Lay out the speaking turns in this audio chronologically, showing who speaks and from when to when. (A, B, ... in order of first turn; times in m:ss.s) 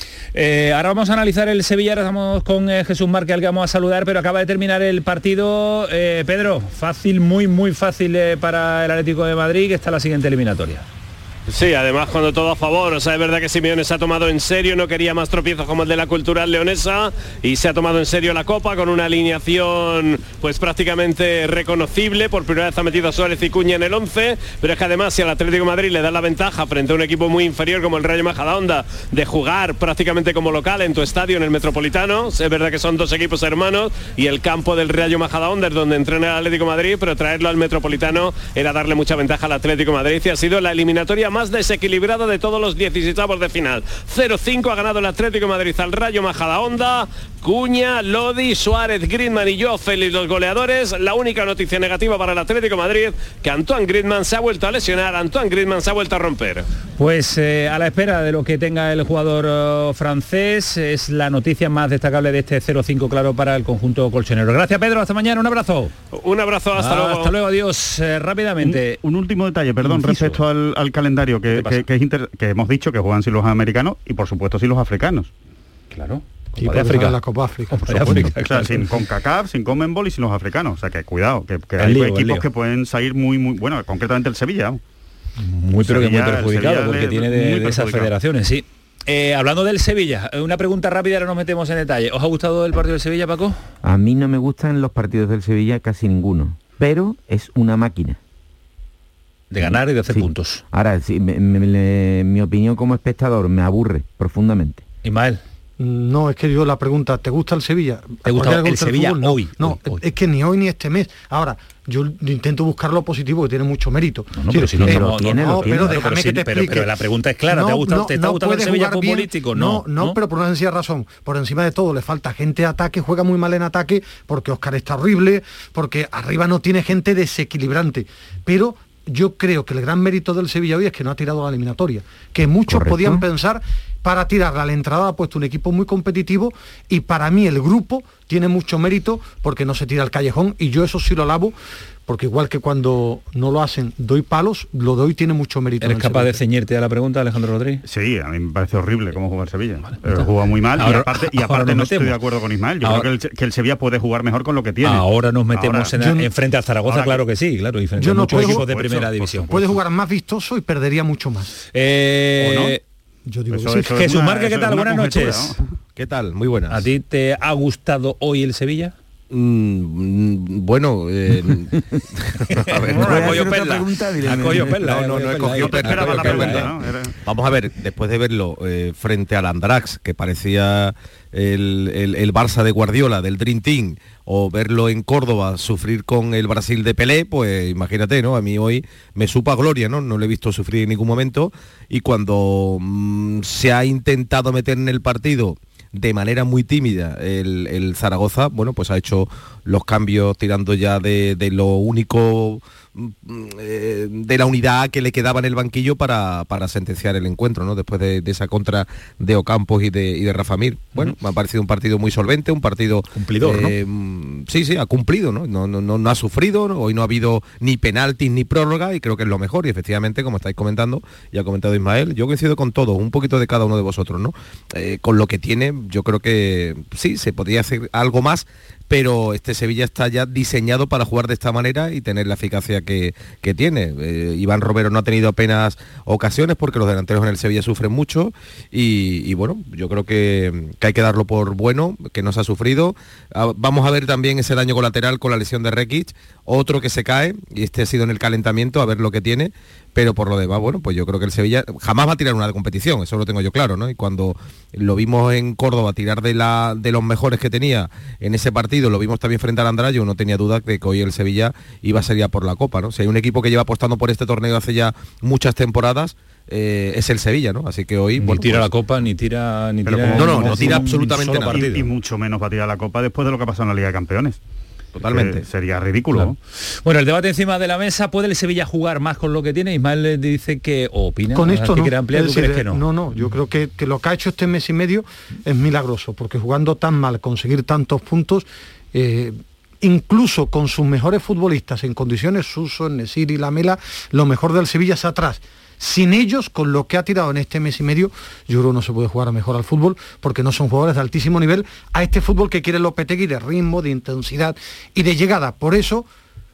0:00.3-0:10.8 A
0:11.5-0:56.7 B
0:57.0-1:05.9 A
1:06.1-1:07.3 B
1:06.8-1:09.0 A
1:08.6-1:15.3 C
1:09.8-1:10.4 A
1:11.5-1:11.8 A
1:15.9-1:17.2 A
1:16.6-1:18.4 D
1:17.7-1:18.8 A
1:18.4-1:24.8 C
1:21.8-1:22.5 A
1:25.4-1:33.6 A
1:25.8-1:28.1 C
1:33.8-1:38.2 E
1:39.5-1:40.6 A
1:39.6-1:44.8 E
1:45.0-1:45.4 A
1:45.8-1:56.9 D
1:48.3-1:50.0 A
1:54.3-2:00.2 A
1:54.5-1:56.1 E
1:57.5-2:21.6 D
2:12.7-2:13.3 E
2:22.1-2:26.4 D
2:25.8-2:27.8 A
2:27.9-2:36.0 C
2:30.0-2:32.2 A
2:32.8-2:33.1 A
2:34.8-2:39.6 A
2:36.0-2:36.3 D
2:36.9-2:37.2 C
2:38.0-2:38.7 D
2:38.3-2:39.7 C
2:39.5-2:41.5 D
2:41.7-2:42.8 A
2:42.4-2:42.8 C
2:43.3-2:44.1 D
2:43.5-2:45.6 C
2:44.0-2:45.5 A
2:46.0-2:46.9 F
2:46.7-2:48.9 A
2:49.3-2:53.4 F
2:52.5-2:56.7 A
2:52.9-2:54.9 E
2:54.6-2:56.7 F
2:55.5-2:57.1 C
2:57.2-4:28.7 F
3:33.1-3:33.8 A
4:28.2-4:31.9 A
4:29.9-4:34.4 C
4:30.1-4:31.7 F
4:35.0-4:35.4 F
4:35.0-4:36.4 C
4:36.2-4:42.8 A
4:41.3-5:06.1 D